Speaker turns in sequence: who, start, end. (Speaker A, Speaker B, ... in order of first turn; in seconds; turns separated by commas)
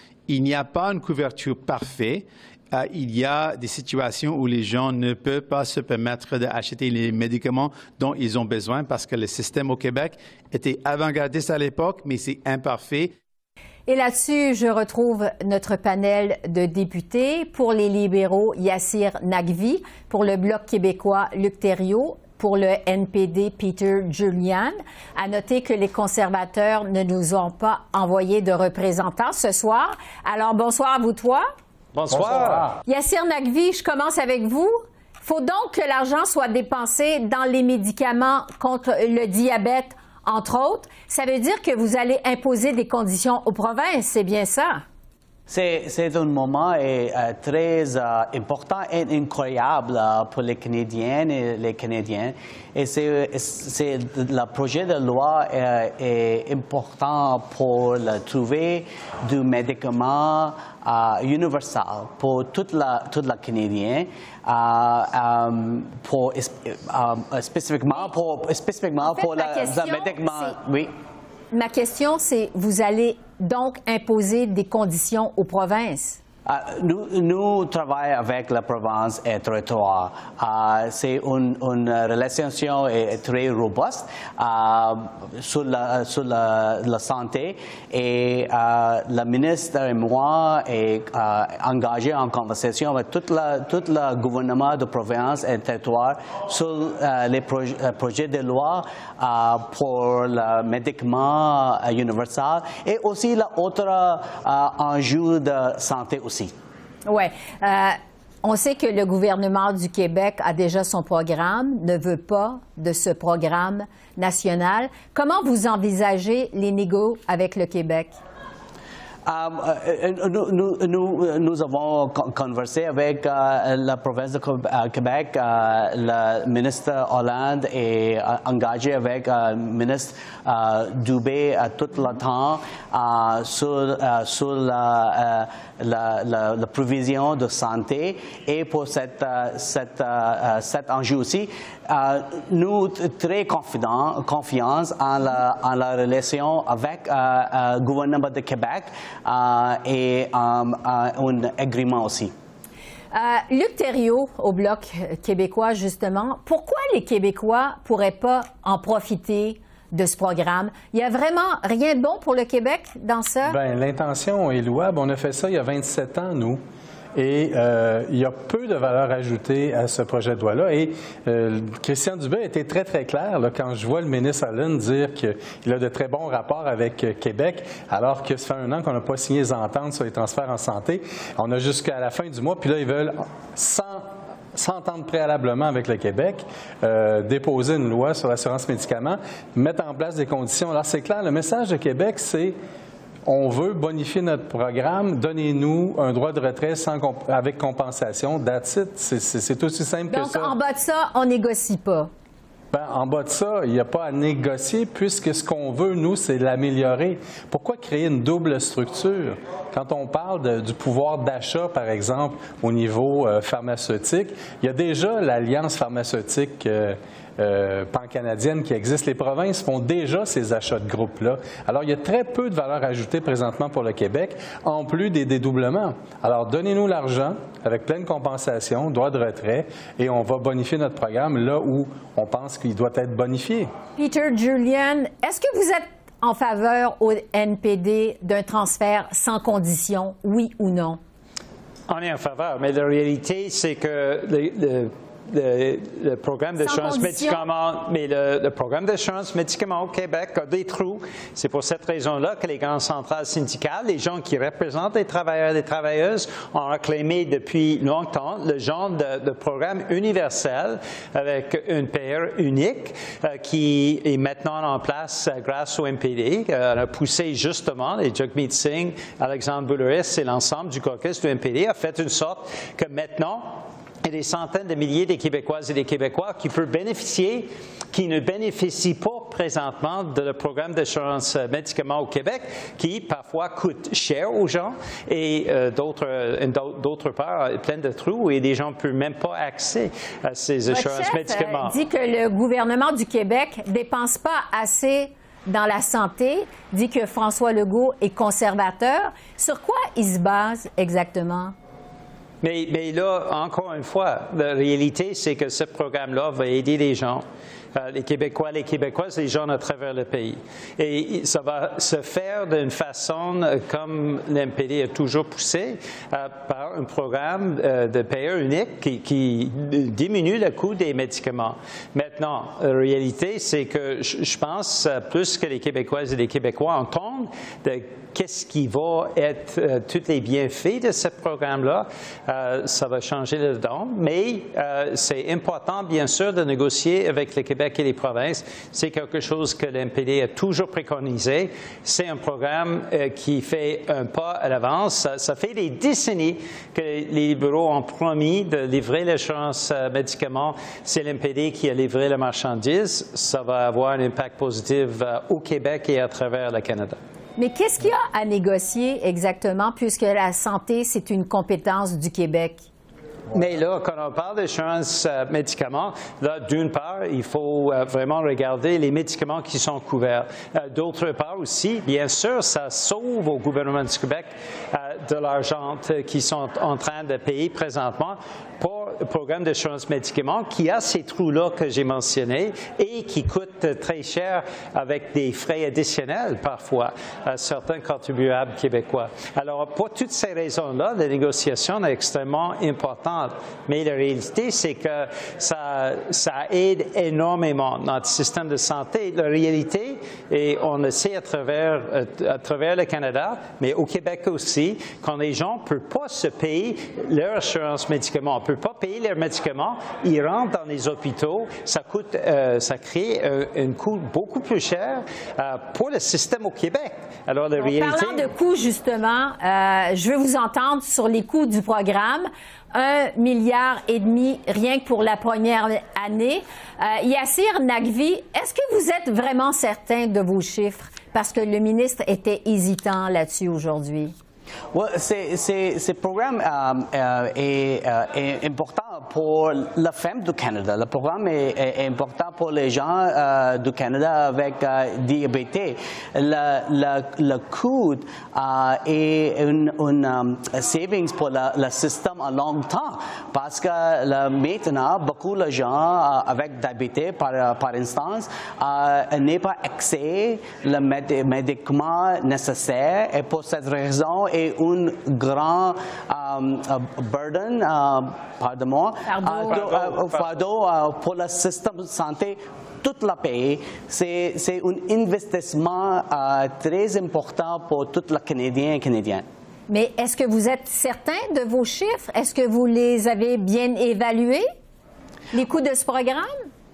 Speaker A: 0.3-13.1, Speaker B: 13.9-31.5, Speaker C: 31.9-32.8, Speaker D: 32.1-32.7, Speaker B: 32.8-44.8, Speaker E: 45.5-70.9, Speaker B: 69.0-70.6, Speaker B: 71.5-76.2, Speaker E: 76.5-106.5, Speaker B: 107.0-118.2, Speaker E: 119.2-152.3, Speaker B: 153.1-163.6, Speaker D: 163.4-166.6, Speaker D: 167.1-192.5, Speaker D: 193.2-200.5, Speaker B: 200.1-202.1, Speaker D: 202.7-233.7, Speaker B: 234.0-241.0, Speaker C: 241.9-291.7, Speaker B: 246.6-247.4, Speaker B: 290.7-301.5, Speaker C: 302.4-307.2, Speaker C: 307.7-357.0, Speaker B: 357.4-362.7, Speaker C: 363.3-418.3, Speaker B: 417.6-434.1, Speaker E: 434.7-479.2, Speaker B: 469.1-469.6, Speaker C: 469.4-470.4, Speaker B: 479.7-484.5, Speaker B: 485.3-486.4